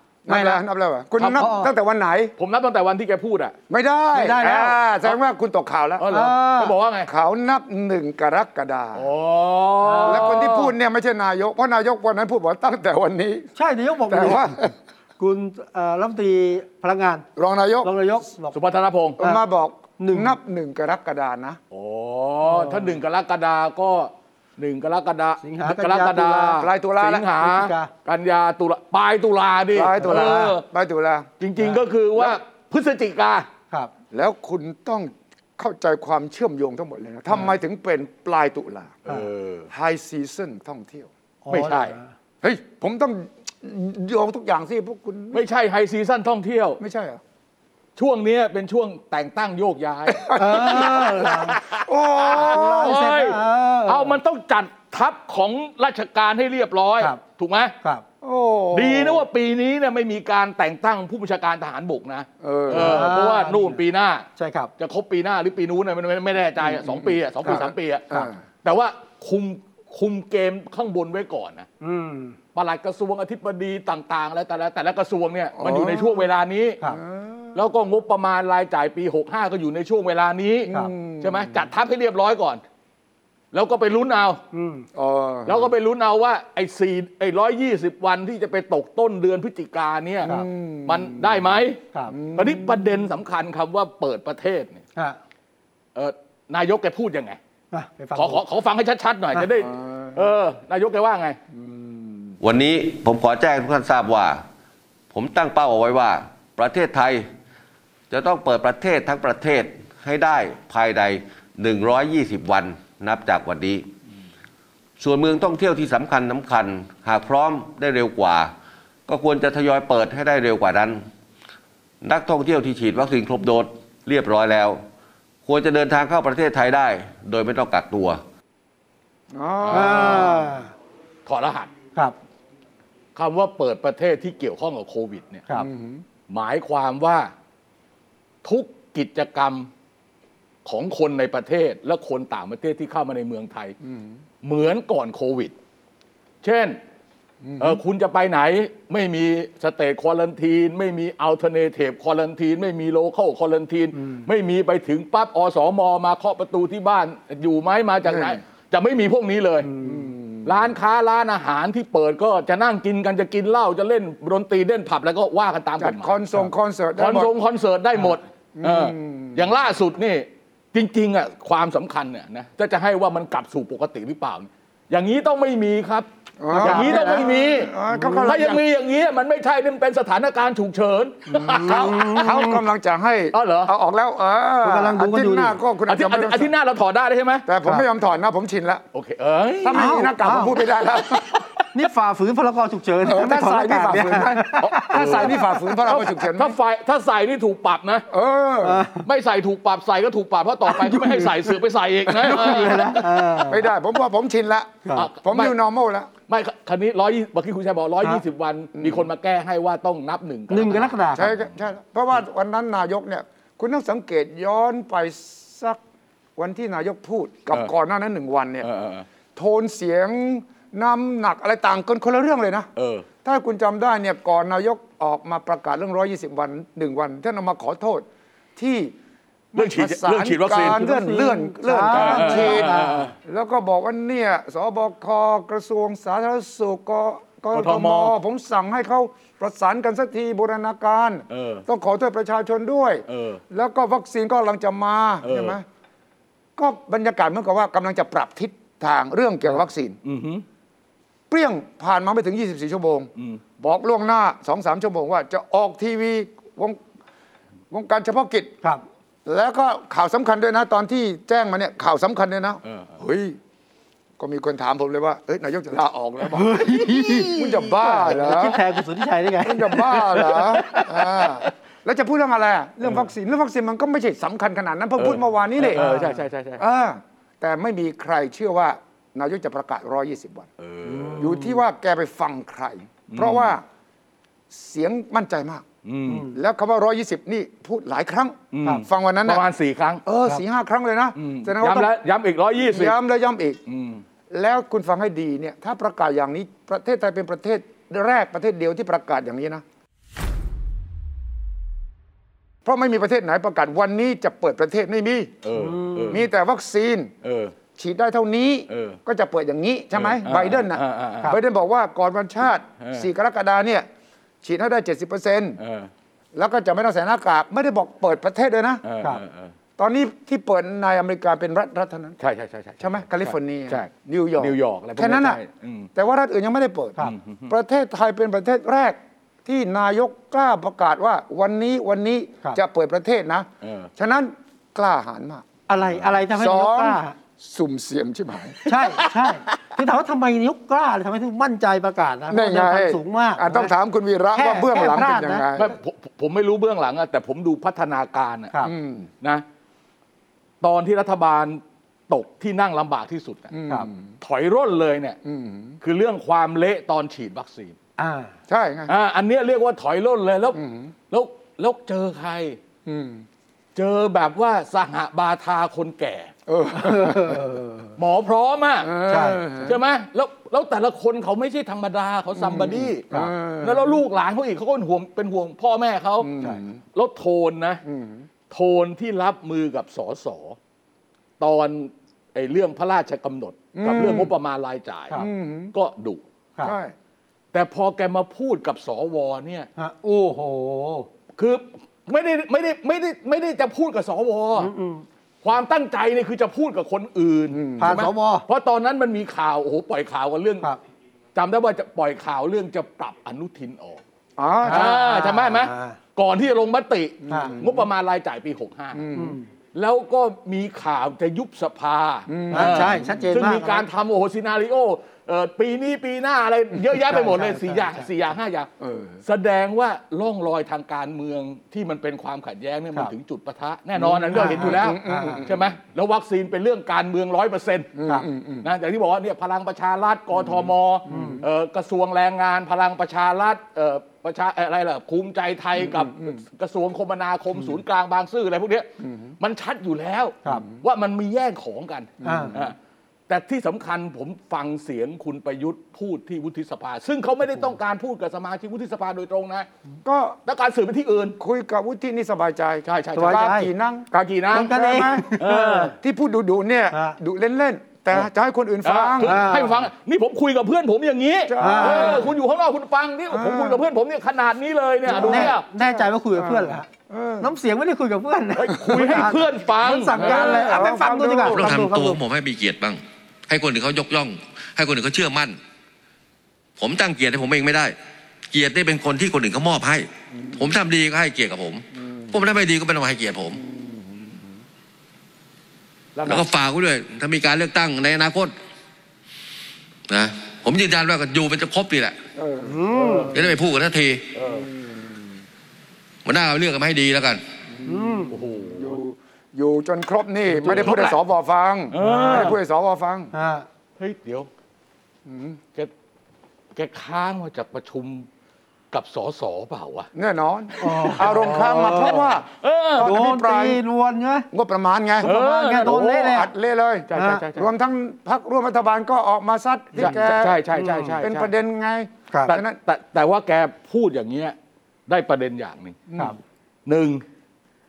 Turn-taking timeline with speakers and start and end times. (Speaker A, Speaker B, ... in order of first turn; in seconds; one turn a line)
Speaker A: 0.2-2.3
Speaker B: 0.3-0.6
Speaker C: 1.2-1.4
Speaker B: 1.2-1.7
Speaker C: 2.4-3.5
Speaker A: 3.7-6.1
Speaker B: 4.1-4.8
Speaker C: 6.0-7.1
Speaker B: 6.1-6.8
Speaker A: 7.0-9.1
Speaker C: 8.9-10.7
Speaker B: 9.8-10.5
Speaker A: 10.0-13.5
Speaker B: 13.6-14.6
Speaker A: 14.1-14.7
Speaker B: 15.2-17.2
Speaker A: 17.4-17.9
Speaker B: 17.8-18.5
Speaker C: 18.5-19.2
Speaker A: 19.2-21.6
Speaker B: 20.0-20.4
Speaker C: 21.7-30.6
Speaker B: 22.4-22.9
Speaker B: 25.4-26.6
Speaker A: 26.6-27.3
Speaker B: 27.4-27.9
Speaker A: 29.7-31.3
Speaker B: 30.0-30.5
Speaker C: 31.4-33.5
Speaker B: 31.6-31.8
Speaker A: 34.1-39.0
Speaker C: 39.0-39.7
Speaker A: 39.7-41.1
Speaker B: 41.4-42.1
Speaker C: 41.5-42.0
Speaker A: 42.4-45.4
Speaker C: 45.3-46.8
Speaker A: 46.8-47.2
Speaker C: 48.0-57.7
Speaker A: 50.1-53.0
Speaker B: 50.3-51.6
Speaker B: 52.3-54.2
Speaker A: 58.2-59.2
Speaker C: 58.7-64.3
Speaker A: 62.4-63.1
Speaker B: 62.7-63.8
Speaker B: 64.4-64.7
Speaker C: 64.8-71.7
Speaker A: 66.6-68.4
Speaker B: 71.8-72.3
Speaker C: 72.5-76.8
Speaker A: 75.5-76.3
Speaker A: 76.8-77.6
Speaker C: 77.5-82.6
Speaker A: 80.7-81.6
Speaker C: 83.5-84.4
Speaker B: 84.5-84.8
Speaker A: 84.9-85.7
Speaker C: 85.5-90.3
Speaker A: 90.2-91.5
Speaker C: 90.8-91.8
Speaker A: 92.1-92.9
Speaker C: 92.3-94.8
Speaker C: 95.9-97.4
Speaker B: 97.7-98.4
Speaker C: 98.1-101.4
Speaker A: 99.7-100.1
Speaker A: 101.5-102.4
Speaker D: 102.4-104.4
Speaker D: 105.1-107.3
Speaker D: 108.1-113.8
Speaker D: 115.0-118.5
Speaker D: 119.1-121.0
Speaker D: 122.0-124.8
Speaker D: 125.4-128.2
Speaker A: 129.3-130.4
Speaker C: 129.6-130.5
Speaker B: 129.7-130.7
Speaker C: 131.2-131.7
Speaker C: 133.2-135.4
Speaker A: 135.5-136.0
Speaker C: 136.3-137.3
Speaker C: 138.4-139.7
Speaker C: 140.6-143.7
Speaker A: 143.8-144.2
Speaker C: 144.4-145.5
Speaker C: 146.4-146.8
Speaker A: 147.4-147.8
Speaker C: 147.6-159.7
Speaker A: 158.0-158.4
Speaker B: 159.6-160.1
Speaker A: 159.8-160.7
Speaker C: 160.4-166.2
Speaker A: 165.8-167.3
Speaker C: 167.0-176.1
Speaker A: 168.6-169.4
Speaker A: 176.4-178.6
Speaker B: 176.5-177.3
Speaker C: 176.6-181.9
Speaker B: 181.3-182.6
Speaker A: 181.4-186.5
Speaker C: 183.3-183.7
Speaker B: 184.6-185.6
Speaker C: 185.9-187.5
Speaker A: 187.4-188.8
Speaker C: 188.9-189.9
Speaker A: 189.6-191.4
Speaker B: 189.7-190.6
Speaker B: 191.7-195.4
Speaker A: 193.0-196.6
Speaker C: 194.6-198.1
Speaker A: 198.1-198.9
Speaker B: 198.6-199.0
Speaker C: 199.0-203.0
Speaker B: 200.7-201.6
Speaker A: 202.1-206.1
Speaker B: 202.2-203.7
Speaker B: 204.8-205.1
Speaker C: 204.9-205.5
Speaker C: 206.3-210.9
Speaker A: 208.8-209.1
Speaker B: 210.5-211.3
Speaker A: 211.1-215.8
Speaker A: 216.4-218.7
Speaker C: 218.6-219.1
Speaker A: 219.3-222.7
Speaker C: 222.8-223.1
Speaker A: 223.2-228.9
Speaker A: 229.5-245.6
Speaker C: 229.5-230.8
Speaker B: 230.5-233.1
Speaker C: 231.9-233.1
Speaker C: 237.5-238.1
Speaker C: 241.3-241.7
Speaker C: 243.1-243.4
Speaker C: 245.2-245.6
Speaker A: 246.6-250.0
Speaker C: 250.0-250.4
Speaker A: 251.3-256.8
Speaker C: 253.2-253.4
Speaker A: 257.7-258.5
Speaker A: 259.2-263.4
Speaker C: 262.6-263.0
Speaker A: 264.2-268.6
Speaker B: 266.2-271.2
Speaker A: 269.4-275.8
Speaker C: 270.1-271.3
Speaker C: 275.0-276.6
Speaker B: 275.7-276.2
Speaker A: 276.6-280.5
Speaker C: 280.6-281.3
Speaker B: 280.8-281.6
Speaker A: 281.1-283.6
Speaker C: 283.1-283.5
Speaker A: 284.5-285.6
Speaker C: 285.8-286.3
Speaker B: 286.1-286.4
Speaker A: 286.2-289.4
Speaker C: 288.5-290.0
Speaker A: 290.1-291.9
Speaker C: 291.1-292.9
Speaker A: 292.6-293.6
Speaker C: 293.7-294.0
Speaker A: 294.3-299.6
Speaker A: 302.6-305.4
Speaker C: 305.4-306.2
Speaker B: 305.5-306.2
Speaker A: 306.1-307.1
Speaker C: 307.2-307.5
Speaker A: 307.7-313.9
Speaker C: 308.7-309.0
Speaker C: 309.9-311.3
Speaker C: 312.8-313.1
Speaker A: 314.4-315.6
Speaker C: 315.6-315.9
Speaker A: 316.3-318.8
Speaker C: 318.8-319.5
Speaker A: 319.8-322.1
Speaker C: 322.2-325.9
Speaker A: 322.8-325.4
Speaker A: 325.9-335.4
Speaker C: 327.0-327.5
Speaker C: 333.6-333.9
Speaker B: 335.7-337.1
Speaker A: 336.3-338.6
Speaker B: 338.6-343.7
Speaker A: 342.3-345.7
Speaker B: 344.3-345.5
Speaker C: 345.5-348.5
Speaker A: 348.6-349.1
Speaker C: 350.6-353.5
Speaker A: 353.5-354.1
Speaker C: 354.2-355.2
Speaker A: 355.2-355.8
Speaker C: 355.8-357.8
Speaker B: 358.0-358.3
Speaker A: 358.5-358.9
Speaker C: 358.9-360.6
Speaker A: 360.5-360.9
Speaker C: 361.1-362.6
Speaker A: 362.9-363.2
Speaker C: 363.7-366.3
Speaker A: 366.5-367.7
Speaker B: 366.8-367.6
Speaker C: 368.0-369.0
Speaker A: 368.8-369.8
Speaker B: 369.1-369.5
Speaker C: 369.6-373.0
Speaker A: 372.3-374.0
Speaker C: 373.6-376.3
Speaker A: 376.2-376.8
Speaker C: 376.9-377.8
Speaker A: 377.8-378.3
Speaker C: 378.5-380.6
Speaker C: 381.4-385.2
Speaker A: 383.7-384.3
Speaker A: 385.1-385.7
Speaker C: 385.7-386.2
Speaker A: 386.6-386.9
Speaker C: 387.5-389.7
Speaker B: 389.8-391.1
Speaker C: 391.4-394.7
Speaker B: 394.6-395.0
Speaker C: 395.4-400.7
Speaker A: 397.5-398.1
Speaker B: 397.8-398.4
Speaker C: 401.3-404.0
Speaker A: 404.4-405.0
Speaker B: 404.6-406.0
Speaker C: 404.7-409.0
Speaker A: 407.3-407.9
Speaker B: 407.3-407.6
Speaker A: 408.9-409.4
Speaker B: 409.1-409.4
Speaker C: 409.7-418.7
Speaker A: 412.3-413.4
Speaker B: 412.5-413.9
Speaker B: 416.9-418.1
Speaker A: 418.8-419.2
Speaker C: 419.2-427.9
Speaker A: 424.0-425.7
Speaker B: 424.3-425.4
Speaker A: 427.9-428.7
Speaker C: 428.6-438.9
Speaker A: 431.1-431.4
Speaker B: 431.1-431.4
Speaker A: 435.8-436.4
Speaker A: 439.0-439.3
Speaker C: 439.4-442.8
Speaker A: 442.2-442.6
Speaker B: 442.2-442.5
Speaker C: 443.3-449.7
Speaker A: 450.0-450.4
Speaker C: 450.5-451.4
Speaker A: 451.4-459.4
Speaker C: 452.9-453.5
Speaker B: 453.1-453.7
Speaker C: 454.1-455.9
Speaker B: 454.5-455.9
Speaker B: 456.9-457.2
Speaker C: 458.8-465.6
Speaker B: 459.2-459.9
Speaker A: 461.5-462.3
Speaker B: 461.6-462.2
Speaker A: 463.3-463.8
Speaker A: 465.0-467.5
Speaker B: 465.1-466.9
Speaker B: 467.4-472.2
Speaker C: 468.5-470.8
Speaker A: 470.1-471.7
Speaker E: 471.4-475.6
Speaker E: 476.8-477.9
Speaker E: 478.5-483.6
Speaker A: 483.6-484.4
Speaker C: 486.1-486.4
Speaker E: 486.2-488.5
Speaker E: 490.1-492.2
Speaker A: 492.3-492.7
Speaker B: 492.6-493.3
Speaker C: 492.9-493.3
Speaker E: 493.3-494.2
Speaker C: 494.3-494.7
Speaker A: 494.5-495.1
Speaker E: 496.2-497.4
Speaker A: 497.8-503.3
Speaker B: 497.9-498.3
Speaker C: 498.3-499.0
Speaker C: 500.6-501.2
Speaker C: 501.9-502.6
Speaker B: 502.0-502.5
Speaker B: 503.3-503.7
Speaker C: 504.0-504.5
Speaker A: 505.2-505.6
Speaker C: 506.8-508.3
Speaker C: 508.9-510.1
Speaker A: 510.1-513.8
Speaker B: 510.8-512.2
Speaker C: 510.8-513.1
Speaker B: 513.0-514.5
Speaker A: 514.5-515.3
Speaker C: 515.2-516.4
Speaker B: 515.2-516.5
Speaker A: 515.9-520.6
Speaker C: 517.1-517.7
Speaker B: 517.1-517.4
Speaker C: 520.0-521.5
Speaker B: 520.0-521.2
Speaker A: 521.2-522.8
Speaker C: 522.5-524.5
Speaker C: 525.1-526.0
Speaker A: 526.1-526.3
Speaker C: 526.9-527.2